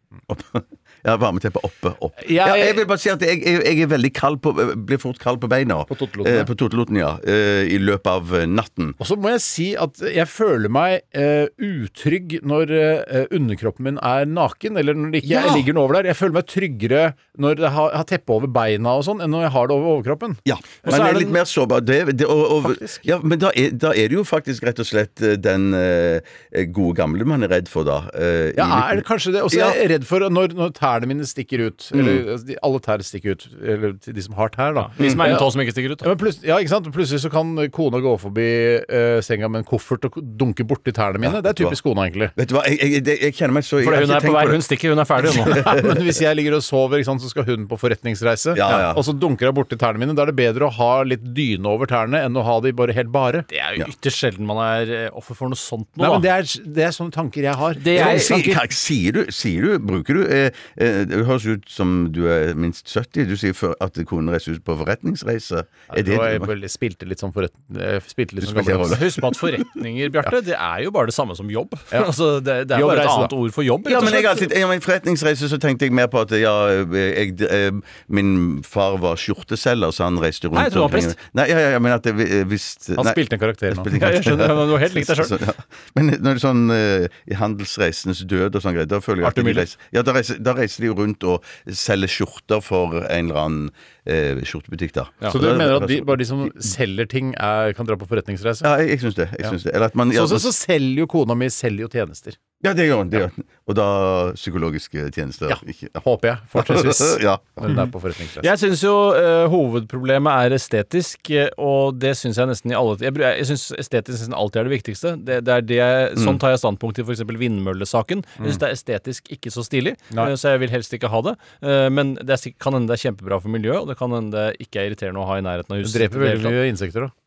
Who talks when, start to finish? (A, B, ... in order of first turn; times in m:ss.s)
0:00.3-0:09.0 A
0:02.2-0:02.8 B
0:05.9-0:06.5 B
0:09.0-0:20.4 B
0:15.2-0:15.7 A
0:20.4-0:29.8 A
0:20.8-0:21.4 C
0:22.6-0:23.0 B
0:28.6-0:35.5 B
0:31.9-0:32.2 A
0:34.8-0:36.1 C
0:35.0-0:35.4 A
0:36.0-0:42.3 B
0:41.2-0:41.8 A
0:42.4-0:44.6 A
0:43.8-0:45.7 C
0:45.3-0:53.5 B
0:45.4-0:46.0 A
0:48.5-0:49.0 A
0:53.5-0:56.3 C
0:56.0-0:58.6 B
0:57.8-0:58.5 C
0:57.9-1:06.5 A
1:05.9-1:09.0 B
1:08.4-1:09.2 A
1:08.8-1:14.5 C
1:12.7-1:13.3 B
1:13.8-1:36.5 A
1:20.5-1:21.2 C
1:23.0-1:23.9 B
1:23.9-1:25.4 C
1:29.2-1:29.7 C
1:35.3-1:38.7 B
1:38.6-1:40.5 A
1:40.1-1:42.4 B
1:42.6-1:46.0 A
1:45.5-1:48.5 B
1:46.6-1:47.8 A
1:48.4-2:06.6 C
2:05.8-2:07.1 B